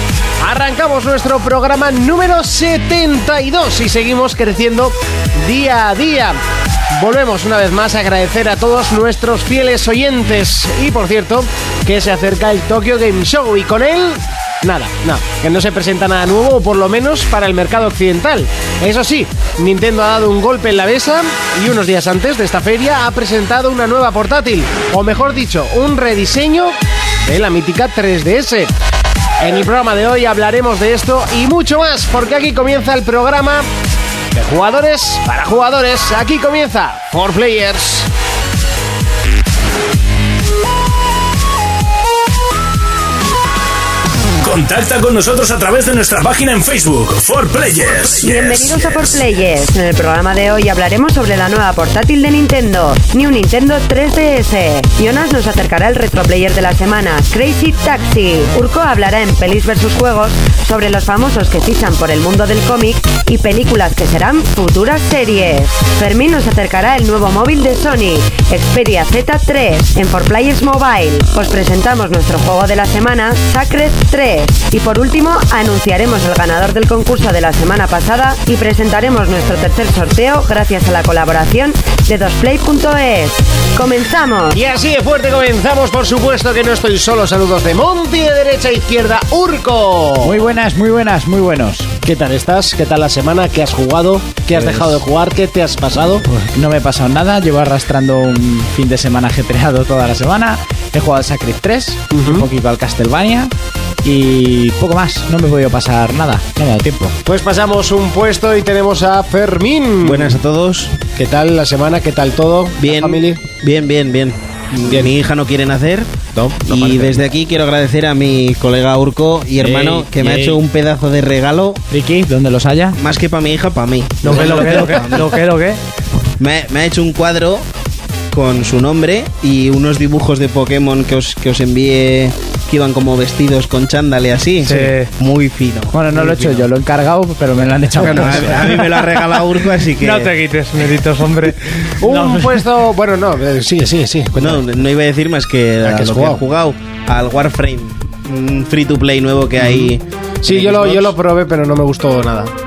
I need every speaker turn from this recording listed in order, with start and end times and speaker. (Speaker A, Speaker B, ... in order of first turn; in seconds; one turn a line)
Speaker A: 0.4-6.4
Speaker A: 6.9-28.7
Speaker A: 29.4-33.7
Speaker A: 34.3-38.1
Speaker B: 44.4-49.2
Speaker C: 48.2-84.6
Speaker A: 84.5-90.4
Speaker D: 90.2-92.0
Speaker A: 92.0-96.2
Speaker D: 94.5-95.0
Speaker D: 96.2-107.2
Speaker A: 102.1-102.5
Speaker A: 107.2-110.4
Speaker E: 110.0-111.0
Speaker A: 111.1-113.4
Speaker E: 112.8-121.8
Speaker A: 114.8-115.1
Speaker A: 116.3-117.2
Speaker D: 119.6-120.6
Speaker D: 121.9-123.0
Speaker E: 123.0-125.3
Speaker F: 124.2-125.8
Speaker D: 124.3-125.0
Speaker E: 126.4-127.6
Speaker E: 128.3-136.0
Speaker F: 134.6-135.1
Speaker D: 135.9-138.9
Speaker E: 137.9-140.3
Speaker F: 140.0-141.9
Speaker A: 142.0-144.6
Speaker D: 142.1-142.5
Speaker E: 144.4-151.1
Speaker A: 145.8-146.4
Speaker A: 149.6-149.9
Speaker A: 150.4-152.5